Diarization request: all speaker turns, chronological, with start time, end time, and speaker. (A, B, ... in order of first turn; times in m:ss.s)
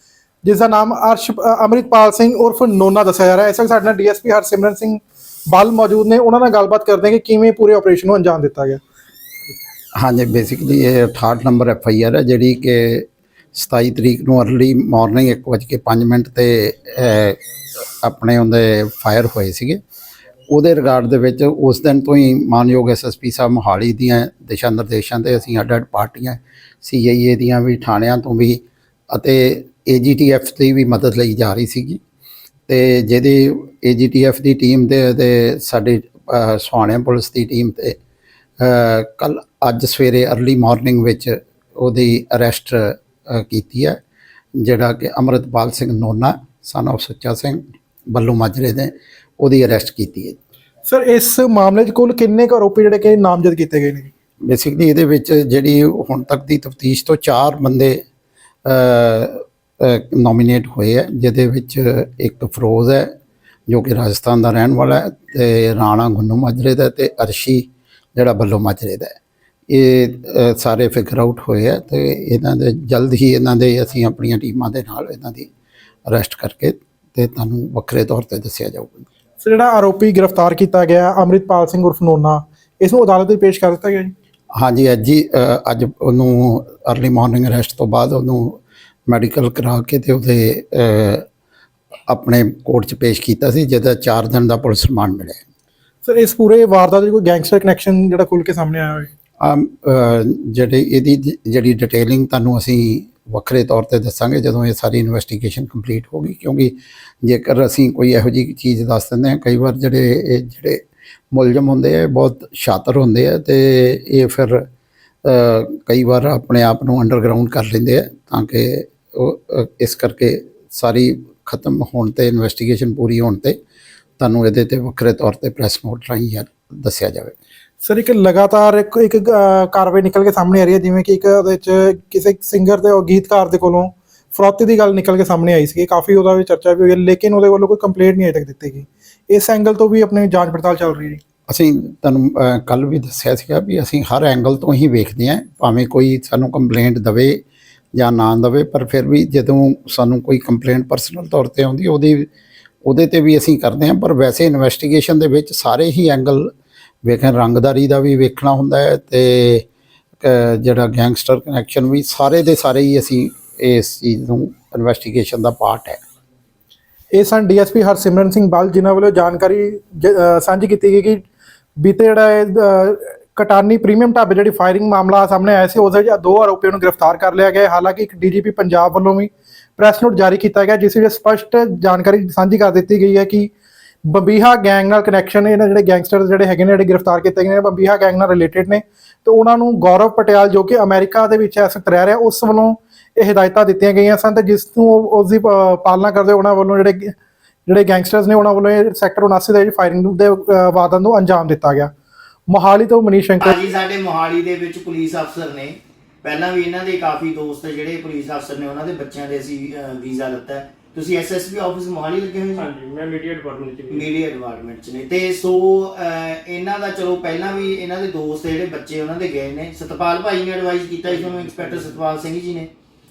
0:00.4-0:08.8 A
0:10.0-0:17.4 B
0:18.0-0:19.8 B
0:20.5-0:28.6 B
0:29.1-0:32.0 B
0:32.7-0:38.0 B
0:38.6-0:44.0 B
0:44.6-0:50.4 B
0:50.8-0:54.1 A
0:54.4-0:58.0 B
0:58.6-1:03.1 B
1:03.7-1:09.1 B
1:09.7-1:15.5 B
1:16.1-1:19.1 B
1:19.4-1:24.1 A
1:24.6-1:31.2 B
1:32.1-1:35.4 B
1:36.0-1:39.1 A
1:39.4-1:50.8 B
1:51.3-1:54.7 B
1:55.2-2:03.6 B
2:04.2-2:07.3 B
2:07.8-2:21.2 A
2:21.5-2:27.4 B
2:28.0-2:32.3 B
2:32.8-2:36.5 B
2:37.0-2:39.6 B
2:40.2-2:46.0 B
2:47.1-2:51.2 A
2:51.8-3:03.5 A
3:04.0-3:17.1 A
3:17.7-3:21.9 A
3:22.5-3:23.6 A
3:23.4-3:32.7 C
3:32.5-3:34.1 D
3:33.9-3:42.7 C
3:41.0-3:42.0 D